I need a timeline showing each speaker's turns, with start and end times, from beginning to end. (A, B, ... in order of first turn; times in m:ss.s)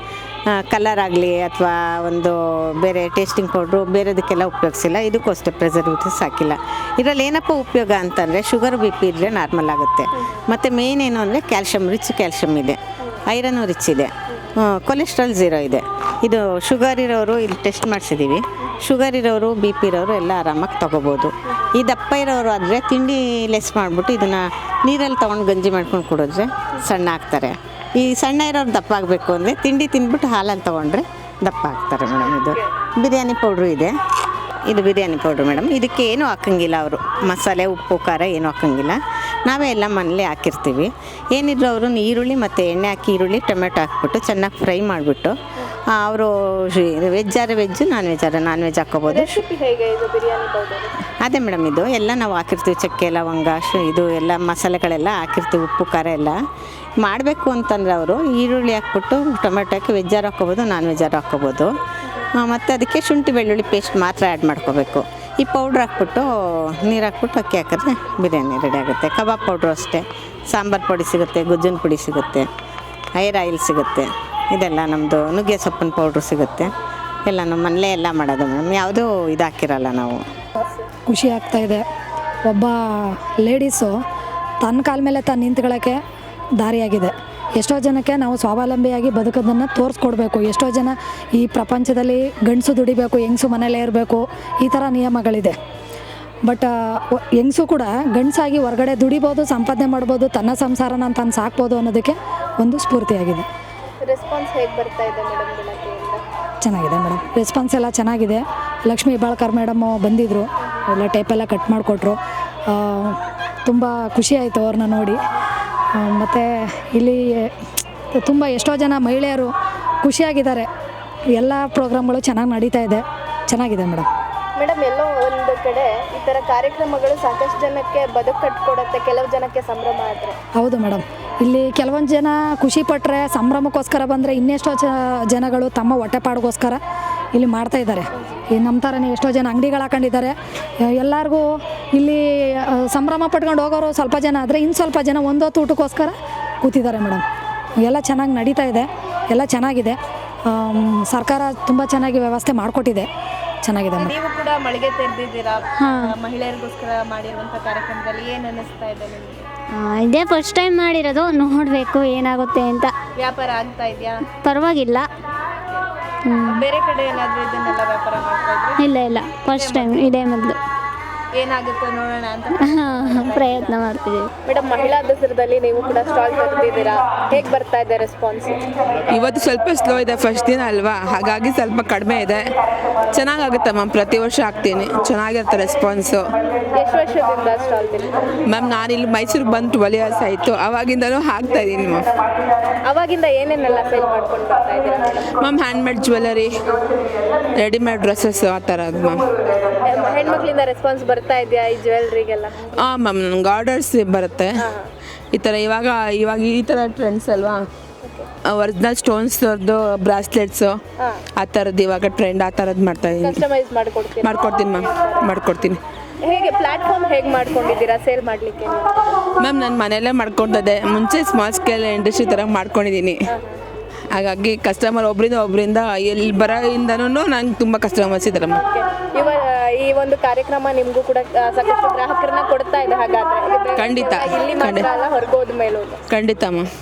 0:00.5-0:33.9 A
0:34.7-0:45.3 A
0:45.9-0:49.4 A
0:49.1-0:50.9 B
0:51.2-0:56.4 A
0:57.0-1:01.7 A
1:02.4-1:12.5 A
1:13.2-1:16.7 A
1:17.2-1:20.2 A
1:21.1-1:21.8 C
1:22.5-1:23.9 C
1:24.6-1:26.0 C
1:26.6-1:35.5 C
1:36.5-1:43.5 C
1:44.0-1:46.2 B
1:46.6-1:52.2 C
1:52.7-1:55.2 C
1:56.0-1:57.5 C
1:58.2-1:59.5 C
2:00.0-2:00.7 C
2:01.4-2:04.0 C
2:04.6-2:10.4 B
2:10.6-2:16.8 C
2:17.3-2:20.3 C
2:20.9-2:27.2 C
2:27.8-2:30.0 C
2:30.5-2:33.1 C
2:33.6-2:34.1 C
2:34.0-2:39.5 B
2:35.8-2:36.1 D
2:39.7-2:42.9 D
2:43.2-2:44.3 B
2:44.4-2:45.1 D
2:46.3-2:46.6 D
2:46.4-2:48.8 B
2:48.8-2:50.6 D
2:49.6-2:50.2 B
2:51.3-2:53.8 B
2:52.6-2:54.3 D
2:54.5-2:58.6 B
2:59.1-3:02.5 E
3:03.1-3:06.3 E
3:06.7-3:08.2 B
3:08.5-3:12.1 E
3:12.9-3:15.3 B
3:15.4-3:16.8 E
3:17.4-3:19.5 E
3:19.8-3:22.7 B
3:22.8-3:24.6 E
3:24.6-3:24.9 B
3:25.3-3:27.6 E
3:28.0-3:28.3 B
3:28.4-3:30.8 E
3:31.4-3:33.4 E
3:33.2-3:35.3 B
3:34.2-3:35.8 E
3:36.2-3:39.2 B
3:39.4-3:43.2 E
3:43.3-3:43.6 B
3:44.1-3:48.6 E
3:48.5-3:56.0 B
3:53.8-3:54.8 E
3:56.1-3:56.7 E